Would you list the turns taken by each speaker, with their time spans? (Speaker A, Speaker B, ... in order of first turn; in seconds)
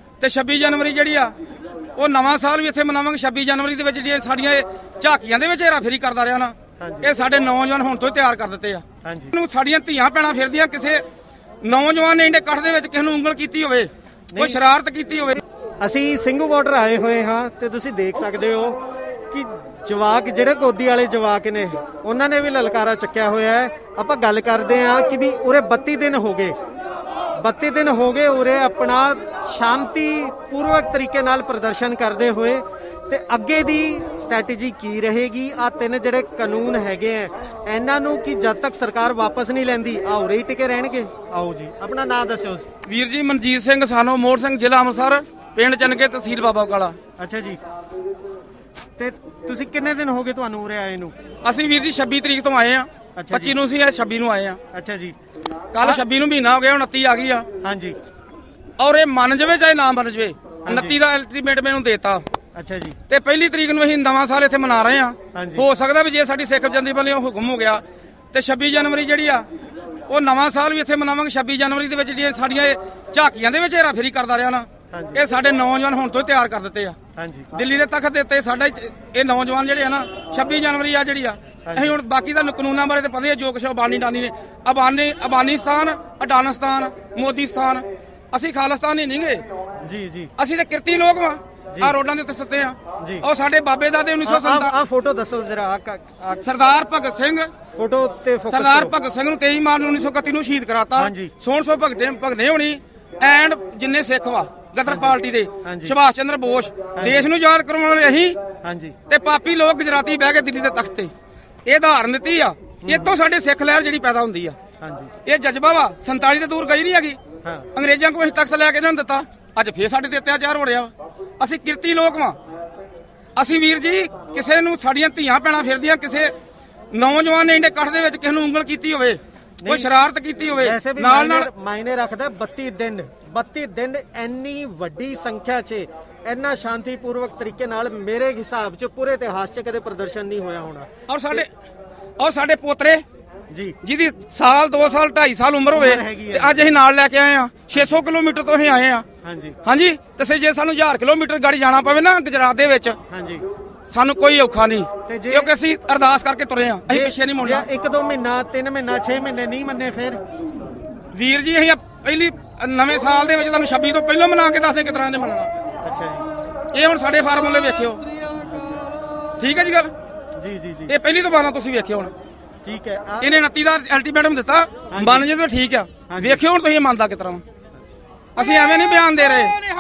Speaker A: 0.2-1.3, 1.9-8.8, 9.3-11.0, 11.6-15.4, 42.9-47.0, 51.4-54.6, 55.7-57.5, 58.8-62.2, 63.1-69.5, 70.1-77.0, 77.5-89.4, 90.4-94.7, 96.3-97.5, 98.5-108.4, 109.1-111.1, 111.7-114.5, 115.3-117.2, 117.7-122.4, 123.4-126.3, 126.9-131.5, 141.1-141.5, 142.2-143.0, 143.8-149.1, 149.7-153.0, 153.9-157.7, 161.1-165.5, 166.7-168.0, 169.4-169.9, 170.9-172.1, 173.2-177.4, 178.4-179.6
Speaker B: 6.8-7.1, 9.0-9.3, 14.3-14.6, 15.8-26.5, 27.4-42.7, 47.2-47.6, 49.0-51.1, 53.2-53.6, 54.7-55.2, 57.6-58.0, 60.7-61.0, 62.5-63.0, 65.3-65.7, 74.9-75.2, 77.2-77.5, 81.7-82.0, 89.8-90.3, 93.0-93.2, 94.2-96.4, 97.8-98.9, 101.0-101.3, 104.8-106.0, 106.9-107.3, 108.6-109.0, 112.8-113.2, 114.8-115.1, 117.4-117.7, 129.6-129.9, 130.5-141.4, 143.5-143.8, 145.7-146.7, 149.2-149.6, 153.1-153.4, 155.1-155.5, 156.9-160.2, 165.8-166.3, 168.4-168.9, 170.4-170.9, 172.6-173.3, 174.9-175.3, 176.1-176.4